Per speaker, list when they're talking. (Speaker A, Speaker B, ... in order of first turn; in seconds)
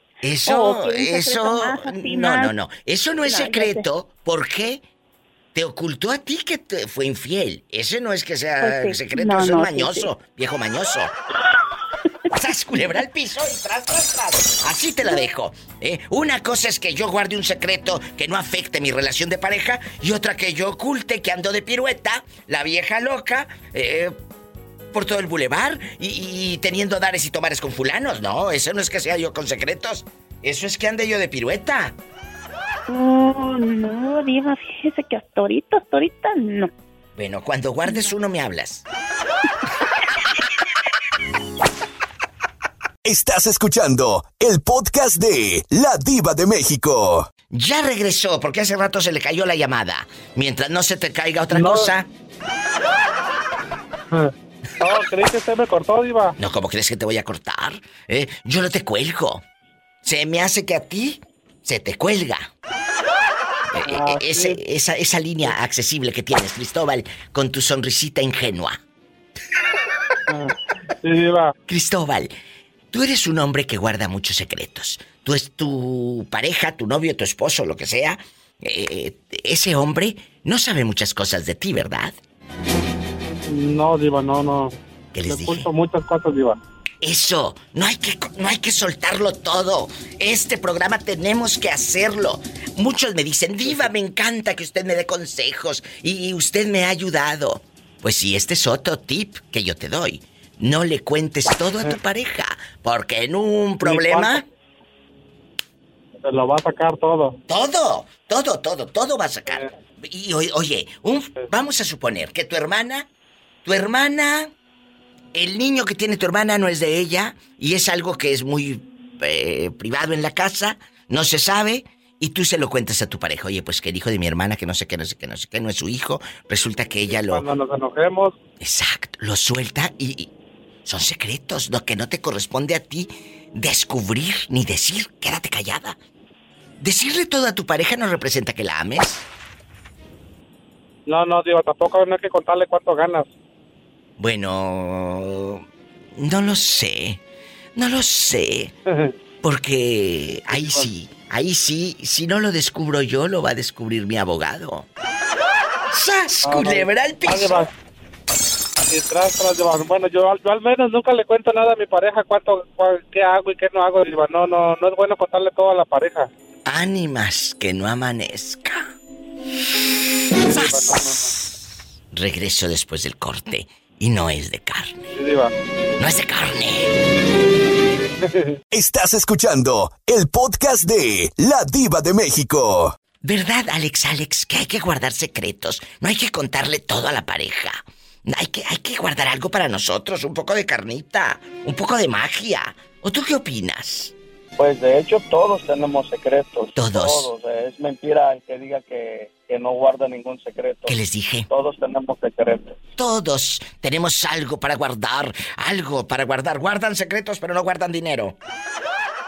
Speaker A: 0.2-4.8, 5.5-11.1, 12.3-24.1, 24.9-31.9, 37.1-38.8, 47.5-52.1, 56.4-59.4, 60.0-62.5, 63.7-68.8, 71.7-72.3, 72.9-82.2, 85.1-85.7, 87.0-104.4, 107.5-113.1, 113.6-114.5, 115.3-127.5, 128.6-130.3, 130.8-136.0, 136.8-139.2, 144.2-145.6, 146.2-147.2, 147.8-148.7, 149.4-154.9, 155.9-157.7, 166.7-168.9, 170.5-171.6, 172.1-175.0, 176.0-176.9, 183.2-194.1, 196.8-197.3, 200.8-201.5, 203.0-208.3
Speaker B: 0.4-2.5, 3.2-3.8, 8.6-10.1, 32.9-36.7, 37.8-38.1
Speaker C: 43.0-47.3, 178.7-182.9
Speaker D: 51.5-51.9, 54.1-56.4, 63.8-64.6, 70.3-71.5, 83.5-84.7, 85.2-86.6, 103.8-104.4, 106.2-107.4, 127.1-128.3, 141.1-143.3, 150.5-150.9, 156.4-157.7, 158.9-166.3, 170.4-171.3, 175.1-175.5, 178.2-178.6
Speaker E: 194.6-201.0, 201.5-202.8